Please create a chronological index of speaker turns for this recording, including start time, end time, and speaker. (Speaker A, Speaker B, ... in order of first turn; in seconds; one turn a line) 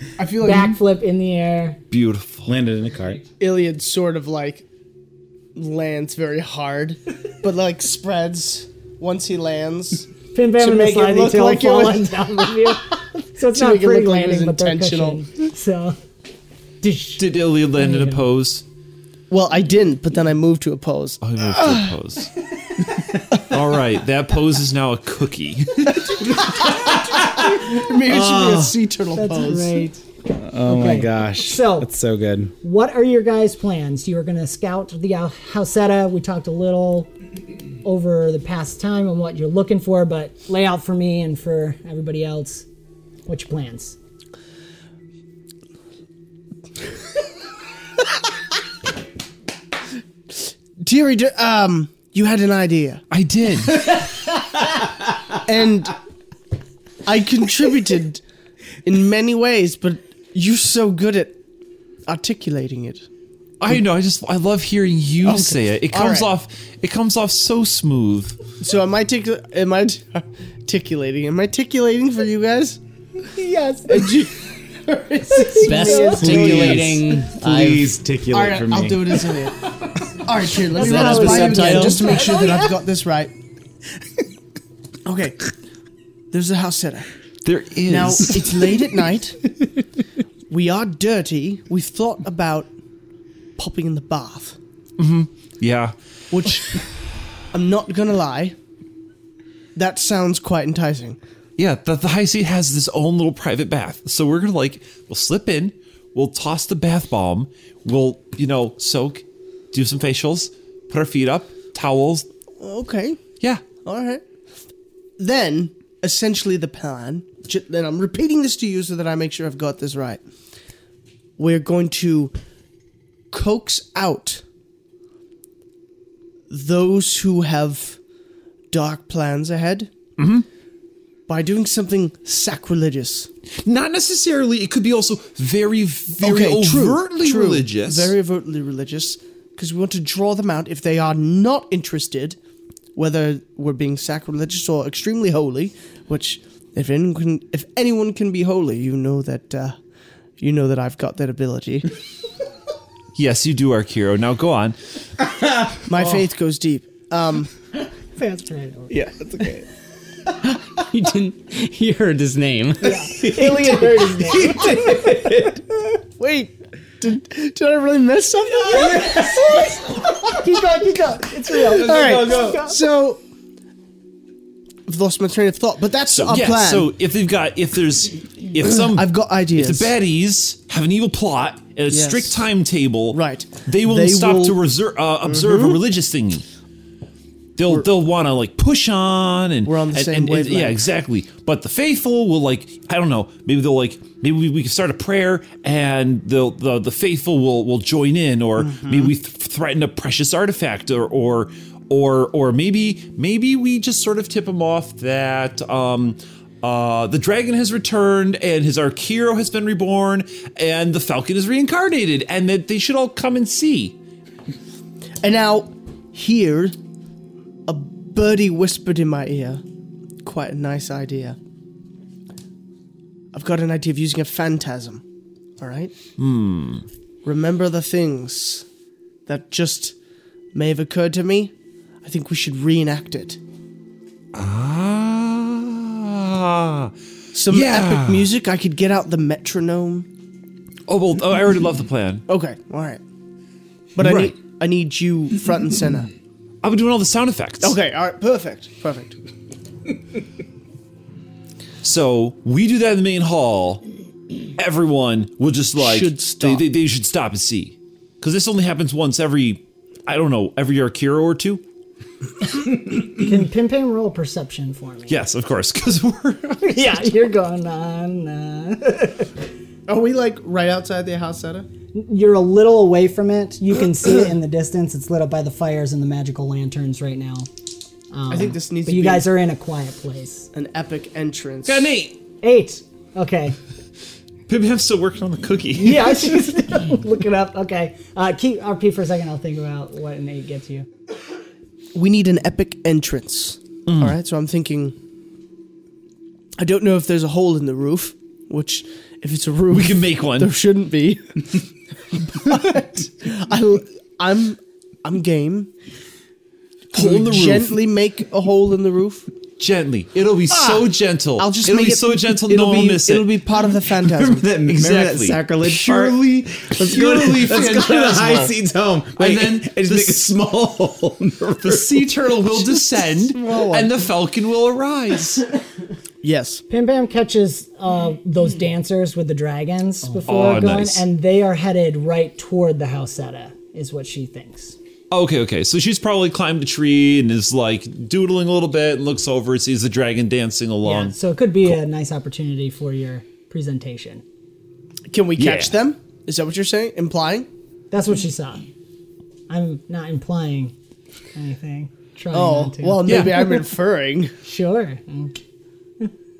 Speaker A: 0.2-0.8
Speaker B: 0.4-1.8
Speaker C: 1.9-2.5
Speaker D: 2.5-3.2
Speaker A: 3.4-4.7
Speaker A: 5.5-12.8
Speaker B: 10.3-16.0
Speaker A: 13.5-15.2
Speaker B: 16.8-18.2
Speaker C: 17.2-18.6
Speaker A: 19.3-22.0
Speaker C: 21.2-22.3
Speaker C: 23.4-26.2
Speaker A: 26.6-29.9
Speaker D: 27.1-28.8
Speaker B: 29.1-30.0
Speaker D: 30.3-32.5
Speaker B: 30.6-31.9
Speaker B: 32.6-37.1
Speaker B: 37.8-42.7
Speaker B: 43.3-44.0
Speaker A: 50.8-53.0
Speaker C: 53.1-54.0
Speaker A: 55.5-56.0
Speaker A: 57.0-58.2
Speaker A: 58.9-61.4
Speaker A: 62.1-63.0
Speaker C: 63.6-68.4
Speaker A: 65.2-66.3
Speaker A: 68.6-72.8
Speaker B: 73.2-74.2
Speaker A: 73.9-77.1
Speaker B: 75.3-76.4
Speaker E: 75.6-77.9
Speaker D: 76.2-79.3
Speaker A: 78.3-79.6
Speaker A: 80.2-83.3
Speaker B: 80.7-82.7
Speaker E: 80.8-82.2
Speaker A: 85.0-85.4
Speaker A: 86.3-87.1
Speaker C: 87.5-88.7
Speaker A: 87.9-89.4
Speaker A: 90.5-92.7
Speaker A: 93.6-94.6
Speaker C: 95.0-95.9
Speaker A: 96.3-96.8
Speaker A: 97.5-98.5
Speaker A: 99.8-101.2
Speaker C: 101.6-112.3
Speaker A: 112.6-113.2
Speaker A: 113.8-114.2
Speaker A: 115.2-120.2
Speaker A: 121.4-122.3
Speaker A: 123.3-124.4
Speaker A: 126.5-128.0
Speaker A: 128.7-129.9
Speaker C: 130.2-130.5
Speaker A: 131.3-133.3
Speaker C: 133.6-138.1
Speaker A: 136.2-142.4
Speaker A: 143.0-149.7
Speaker A: 150.4-151.9
Speaker C: 153.2-154.8
Speaker D: 155.2-155.8
Speaker A: 155.9-157.5
Speaker B: 158.2-159.0
Speaker D: 158.9-159.7
Speaker E: 160.5-163.0
Speaker B: 162.8-165.1
Speaker D: 163.0-165.7
Speaker A: 166.2-169.3
Speaker D: 168.7-170.2
Speaker B: 168.7-172.8
Speaker D: 171.5-172.7
Speaker A: 171.7-173.2
Speaker A: 174.9-176.9
Speaker C: 176.1-186.4
Speaker A: 178.8-179.9
Speaker A: 181.9-182.4
Speaker A: 183.1-184.6
Speaker A: 185.2-185.8
Speaker C: 187.6-213.9
Speaker A: 189.7-190.8
Speaker A: 198.6-199.1
Speaker A: 215.2-216.7
Speaker A: 217.7-219.6
Speaker A: 220.2-221.4
Speaker A: 223.3-225.0
Speaker A: 225.6-225.9
Speaker C: 226.2-226.9
Speaker A: 227.2-228.6
Speaker A: 229.3-229.9
Speaker A: 230.5-231.5
Speaker A: 232.0-233.4
Speaker C: 234.3-236.9
Speaker A: 237.3-240.1
Speaker C: 237.5-238.3
Speaker C: 240.9-242.2
Speaker A: 242.3-243.0
Speaker A: 243.9-246.1
Speaker C: 244.0-244.3
Speaker C: 246.6-247.8
Speaker A: 247.6-249.2
Speaker C: 251.8-253.8
Speaker C: 254.6-261.6
Speaker A: 255.8-256.7
Speaker B: 263.1-265.2
Speaker C: 265.1-267.1
Speaker B: 266.6-269.3
Speaker A: 269.9-271.7
Speaker B: 271.9-277.5
Speaker B: 278.1-280.5
Speaker A: 278.3-279.3
Speaker A: 280.5-281.9
Speaker C: 281.6-282.2
Speaker B: 282.4-283.6
Speaker C: 284.5-286.5
Speaker B: 285.8-290.9
Speaker A: 291.9-294.9
Speaker C: 293.9-294.2
Speaker A: 296.6-301.6
Speaker C: 299.7-300.6
Speaker A: 302.3-305.7
Speaker C: 306.9-307.8
Speaker A: 306.9-309.3
Speaker C: 309.6-313.3
Speaker A: 310.5-314.5
Speaker D: 314.0-322.5
Speaker C: 314.6-318.6
Speaker C: 319.2-320.4
Speaker C: 321.6-325.5
Speaker A: 323.0-324.1
Speaker A: 326.2-326.6
Speaker B: 326.7-334.8
Speaker C: 330.3-331.0
Speaker C: 335.1-341.1
Speaker B: 340.8-344.2
Speaker A: 345.1-347.5
Speaker C: 345.4-345.8
Speaker B: 347.9-348.6
Speaker B: 349.5-350.7
Speaker B: 351.4-353.2
Speaker A: 352.3-354.3
Speaker C: 353.1-353.5
Speaker B: 354.4-355.4